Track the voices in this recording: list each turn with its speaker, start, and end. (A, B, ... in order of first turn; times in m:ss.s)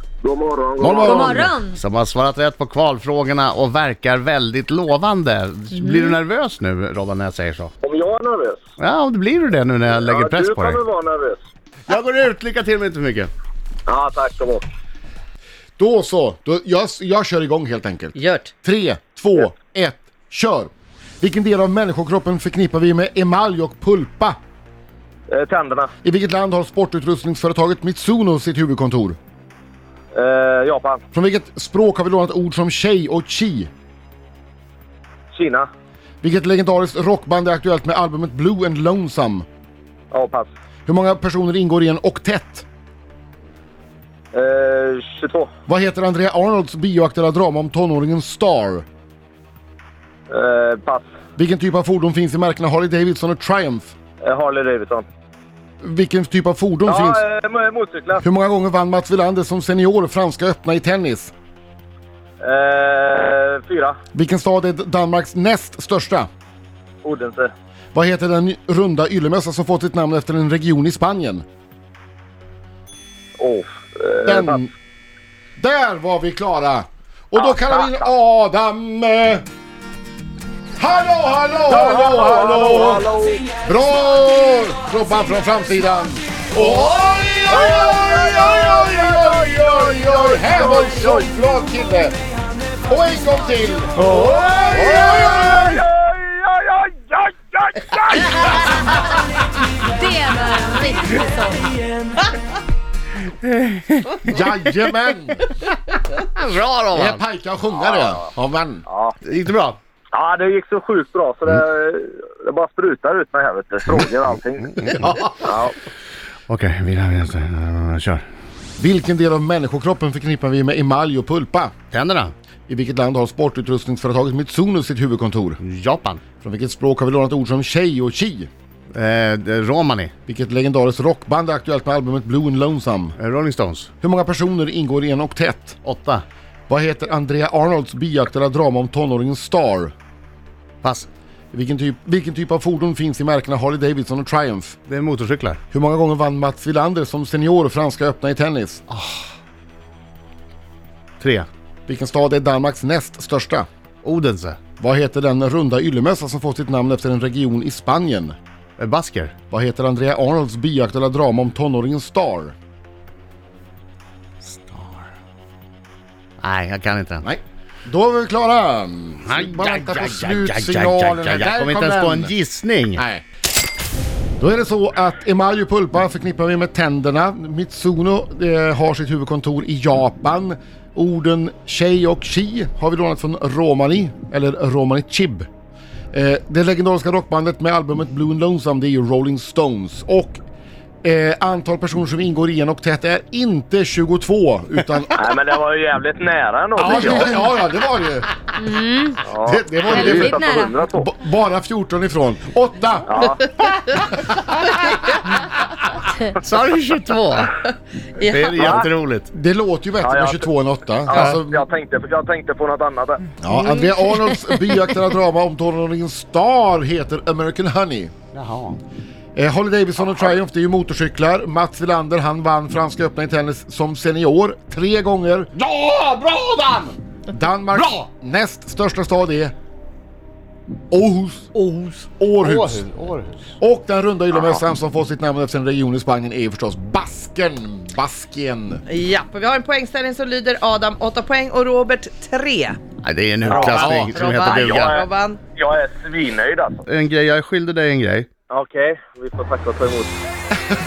0:00.2-0:01.3 A
0:00.8-0:01.6 B
0:01.0-0:01.8 C
0:01.7-0:07.7 D
0:05.7-0:06.2 C
0:07.8-0:08.6 A
0:08.8-0:10.8 D
0:09.9-0:11.4 A
0:11.9-0:13.3 D
0:13.9-0:14.6 A
0:15.8-0:20.7 B
0:18.2-0:18.5 E
0:21.2-0:24.4 B
0:25.3-0:25.9 A
0:26.0-0:29.2 B
0:30.1-0:31.0 A
0:31.1-0:33.7 B
0:35.3-0:35.7 A
0:36.2-0:39.5 B
0:40.1-0:40.5 A
0:40.9-0:42.7 B
0:44.3-0:45.5 A
0:45.7-0:48.9 B
0:50.3-0:51.1 A
0:51.4-0:53.9 B
0:54.2-0:55.1 A
0:55.8-0:57.2 B
0:56.9-0:58.2 A
0:58.2-1:01.3 B
1:02.4-1:04.0 A
1:04.1-1:06.3 B
1:07.0-1:07.5 A
1:07.9-1:11.4 B
1:13.4-1:14.6 A
1:14.2-1:14.7 B
1:15.6-1:19.4 B
1:17.4-1:18.1 A
1:20.8-1:23.0 B
1:21.7-1:23.4 A
1:23.6-1:32.2 B
1:26.6-1:31.3 A
1:32.9-1:35.8 B
1:34.0-1:34.4 D
1:34.1-1:38.7 A
1:39.8-1:41.7 C
1:43.9-1:44.2 D
1:44.2-1:45.4 B
1:46.1-1:47.2 D
1:46.9-1:48.8 B
1:47.8-1:48.3 A
1:48.9-1:49.2 A
1:49.2-1:49.8 D
1:50.1-1:55.8 A
1:54.9-1:55.5 B
1:56.5-1:58.2 D
1:58.8-2:01.7 B
2:01.9-2:02.3 D
2:02.7-2:05.6 B
2:05.6-2:06.2 D
2:06.4-2:08.5 B
2:08.9-2:10.1 D
2:10.3-2:13.2 B
2:13.2-2:13.9 D
2:14.0-2:15.8 B
2:15.8-2:16.2 D
2:16.7-2:19.9 B
2:20.8-2:21.1 D
2:21.5-2:24.8 B
2:24.9-2:25.6 D
2:25.7-2:28.8 B
2:28.9-2:29.2 D
2:31.2-2:31.5 D
2:31.9-2:33.7 B
2:34.0-2:34.6 D
2:34.8-2:38.4 B
2:38.8-2:39.3 D
2:39.5-2:42.6 B
2:44.4-2:45.1 D
2:46.4-2:47.3 D
2:47.2-2:52.4 B
2:49.2-2:53.0 D
2:53.0-2:53.2 B
2:54.4-3:05.5 B
3:06.1-3:10.4 B
3:11.0-3:15.2 B
3:15.2-3:17.3 A
3:16.8-3:18.5 B
3:18.6-3:19.2 C
3:19.2-3:21.1 A
3:19.4-3:24.9 B
3:19.9-3:20.8 C
3:23.1-3:23.4 A
3:26.4-3:27.6 D
3:28.2-3:28.8 E
3:28.2-3:29.3 D
3:28.6-3:28.9 A
3:29.3-3:31.7 B
3:30.0-3:30.5 A
3:31.1-3:33.3 A
3:33.4-3:38.1 B
3:38.3-3:38.8 D
3:39.4-3:45.5 B
3:40.0-3:40.3 A
3:45.6-3:47.0 D
3:47.3-3:49.5 B
3:47.7-3:48.0 D
3:50.9-3:51.5 B
3:51.5-3:53.5 D
3:52.2-3:52.8 B
3:53.6-3:58.8 B
3:58.9-4:02.8 E
4:03.0-4:05.0 D
4:03.5-4:05.4 E
4:03.5-4:06.8 A
4:06.9-4:08.3 D
4:08.5-4:10.1 A